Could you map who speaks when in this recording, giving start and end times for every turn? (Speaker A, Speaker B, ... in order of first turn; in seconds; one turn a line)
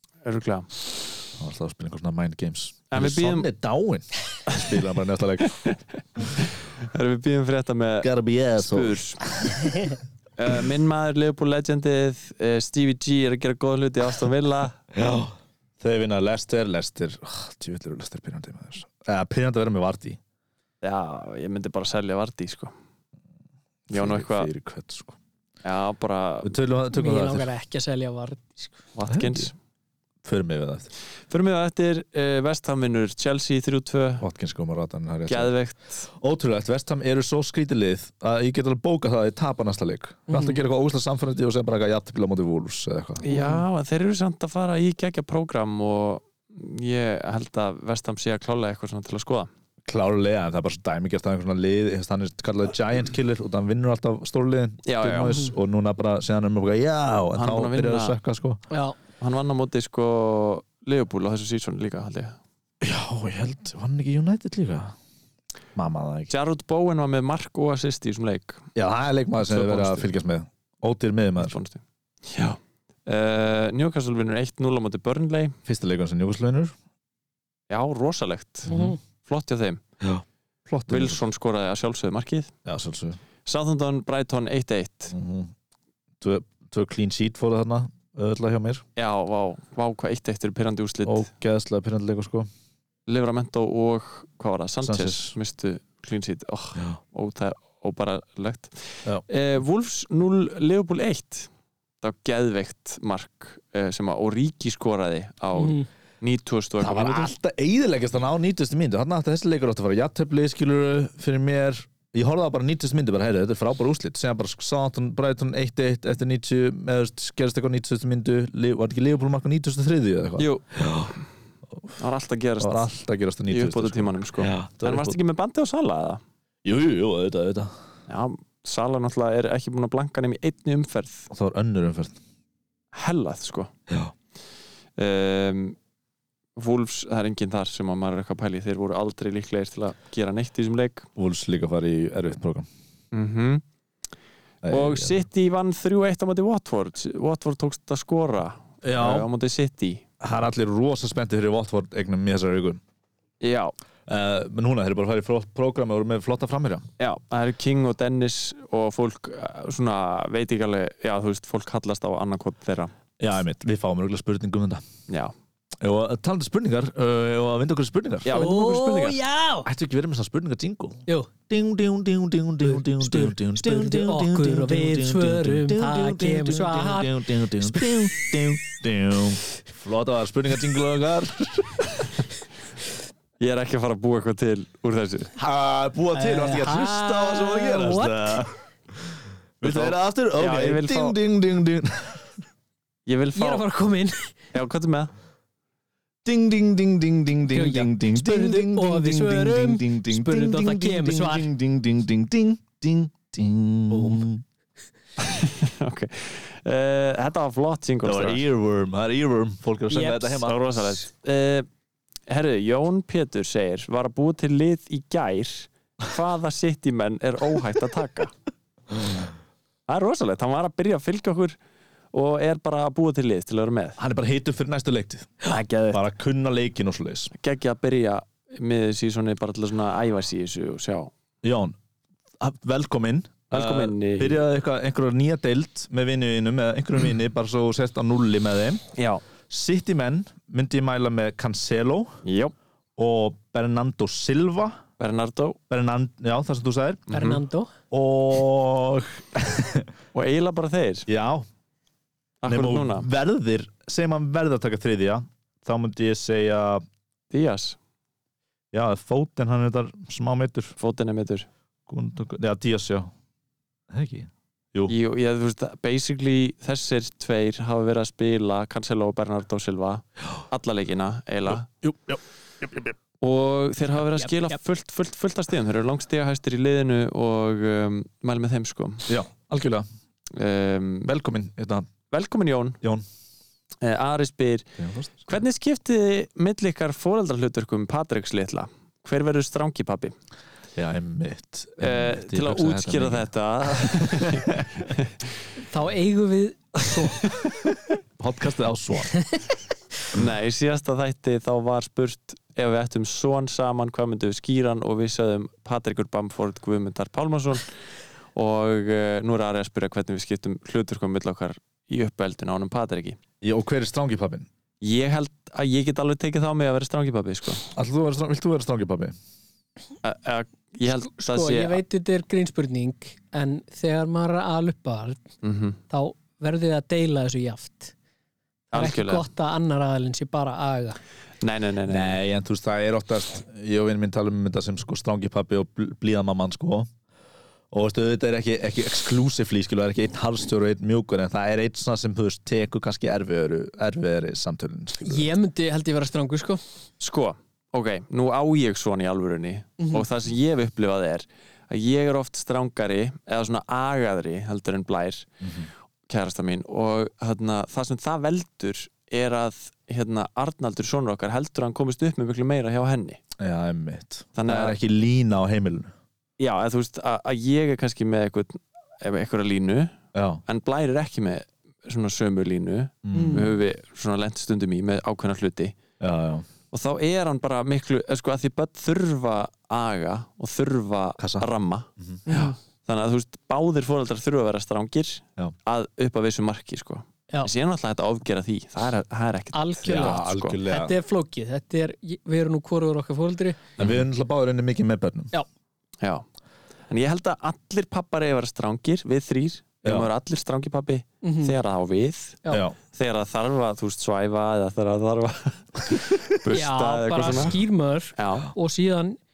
Speaker A: 0.2-0.7
Speaker B: 1.4-5.6
Speaker A: 2.9-3.5
Speaker A: 5.5-9.3
Speaker B: 8.0-9.6
Speaker A: 10.4-14.8
Speaker B: 14.9-20.2
Speaker A: 20.8-22.7
Speaker B: 23.9-25.2
Speaker A: 23.9-24.5
Speaker A: 25.6-26.5
Speaker B: 26.4-27.5
Speaker C: 26.9-28.8
Speaker A: 28.9-29.5
Speaker B: 29.1-29.5
Speaker B: 30.2-30.9
Speaker A: 31.3-34.2
Speaker B: 34.2-35.5
Speaker A: 35.3-36.1
Speaker B: 36.1-43.2
Speaker C: 40.3-40.6
Speaker C: 43.2-43.6
Speaker A: 43.2-49.5
Speaker B: 49.9-58.6
Speaker A: 54.8-55.4
Speaker A: 57.4-58.1
Speaker C: 58.7-59.0
Speaker A: 59.2-62.4
Speaker B: 62.8-64.9
Speaker B: 65.8-66.3
Speaker A: 66.3-68.7
Speaker B: 68.7-71.6
Speaker A: 69.4-70.1
Speaker A: 71.4-75.5
Speaker B: 75.7-76.7
Speaker A: 77.7-79.8
Speaker B: 78.7-78.9
Speaker C: 78.7-79.0
Speaker B: 80.0-81.2
Speaker A: 80.9-82.5
Speaker B: 82.6-83.2
Speaker A: 83.4-85.1
Speaker B: 85.1-85.5
Speaker B: 86.2-88.8
Speaker A: 89.0-91.3
Speaker B: 91.0-92.5
Speaker A: 93.1-101.5
Speaker B: 94.8-95.3
Speaker A: 102.0-107.3
Speaker C: 105.5-105.9
Speaker B: 106.8-121.1
Speaker A: 120.4-121.2
Speaker A: 122.0-122.9
Speaker B: 122.6-125.2
Speaker A: 123.5-126.2
Speaker B: 126.6-127.7
Speaker A: 128.1-131.3
Speaker B: 131.3-132.2
Speaker A: 132.9-133.7
Speaker B: 133.9-134.1
Speaker A: 135.0-135.8
Speaker A: 136.6-141.1
Speaker B: 141.2-142.7
Speaker A: 143.1-143.6
Speaker B: 144.6-145.2
Speaker A: 144.7-150.0
Speaker B: 148.8-149.3
Speaker B: 150.2-152.8
Speaker A: 153.4-153.7
Speaker B: 154.1-156.8
Speaker A: 157.0-162.9
Speaker B: 163.2-164.8
Speaker B: 165.8-168.3
Speaker A: 168.2-169.2
Speaker C: 168.3-169.7
Speaker B: 169.6-181.8
Speaker C: 172.6-177.6
Speaker A: 183.4-185.3
Speaker B: 185.4-192.3
Speaker C: 186.1-188.4
Speaker A: 189.6-191.2
Speaker A: 193.1-193.6
Speaker C: 193.3-194.3
Speaker A: 194.5-195.1
Speaker B: 196.2-204.4
Speaker C: 197.5-201.5
Speaker C: 203.9-204.2
Speaker A: 205.2-208.4
Speaker B: 208.0-210.6
Speaker A: 209.9-211.7
Speaker A: 212.3-218.3
Speaker A: 219.9-221.6
Speaker A: 222.1-224.0
Speaker B: 224.0-227.3
Speaker A: 225.4-226.0
Speaker A: 227.4-231.1
Speaker B: 231.4-231.8
Speaker B: 232.4-238.8
Speaker A: 233.5-234.4
Speaker A: 238.9-239.2
Speaker B: 239.5-242.2
Speaker A: 242.2-242.5
Speaker B: 243.0-244.8
Speaker A: 245.0-245.6
Speaker B: 245.7-247.0
Speaker A: 247.1-247.4
Speaker C: 247.1-247.7
Speaker B: 247.9-249.9
Speaker A: 250.1-251.1
Speaker B: 251.1-251.4
Speaker A: 252.4-253.1
Speaker B: 252.4-256.8
Speaker A: 257.3-257.8
Speaker B: 258.7-260.7
Speaker A: 260.8-261.5
Speaker B: 261.9-263.1
Speaker B: 263.9-264.9
Speaker A: 264.9-271.7
Speaker B: 271.5-272.9
Speaker A: 273.2-279.1
Speaker B: 279.1-279.9
Speaker A: 280.3-281.1
Speaker B: 281.0-281.9
Speaker A: 282.1-282.8
Speaker A: 283.8-284.7
Speaker B: 284.8-285.3
Speaker A: 285.2-290.1
Speaker B: 290.8-294.9
Speaker A: 291.8-295.1
Speaker C: 295.7-297.2
Speaker B: 298.2-299.2
Speaker A: 300.1-307.7
Speaker A: 308.3-313.2
Speaker B: 313.4-314.5
Speaker A: 314.8-317.6
Speaker B: 317.7-319.1
Speaker A: 320.0-321.8
Speaker C: 320.9-325.2
Speaker A: 325.4-325.8
Speaker C: 325.9-327.9
Speaker A: 328.7-329.2
Speaker C: 328.7-331.0
Speaker A: 331.4-332.2
Speaker B: 331.9-336.9
Speaker B: 337.7-345.3
Speaker C: 345.0-346.6
Speaker A: 347.0-355.3
Speaker C: 349.8-350.0
Speaker B: 355.4-355.7
Speaker A: 356.1-363.2
Speaker B: 363.4-365.9
Speaker A: 364.4-364.8
Speaker A: 366.4-375.8
Speaker B: 370.1-370.4
Speaker B: 373.0-373.5
Speaker C: 373.1-373.5
Speaker B: 376.0-376.5
Speaker A: 376.7-390.6
Speaker B: 381.2-381.4
Speaker C: 382.3-382.5
Speaker C: 389.5-393.6
Speaker B: 389.9-390.9
Speaker B: 393.8-395.3
Speaker A: 396.9-407.5
Speaker B: 399.8-400.1
Speaker C: 401.2-401.6
Speaker B: 402.5-402.8
Speaker C: 406.5-409.2
Speaker A: 408.1-408.5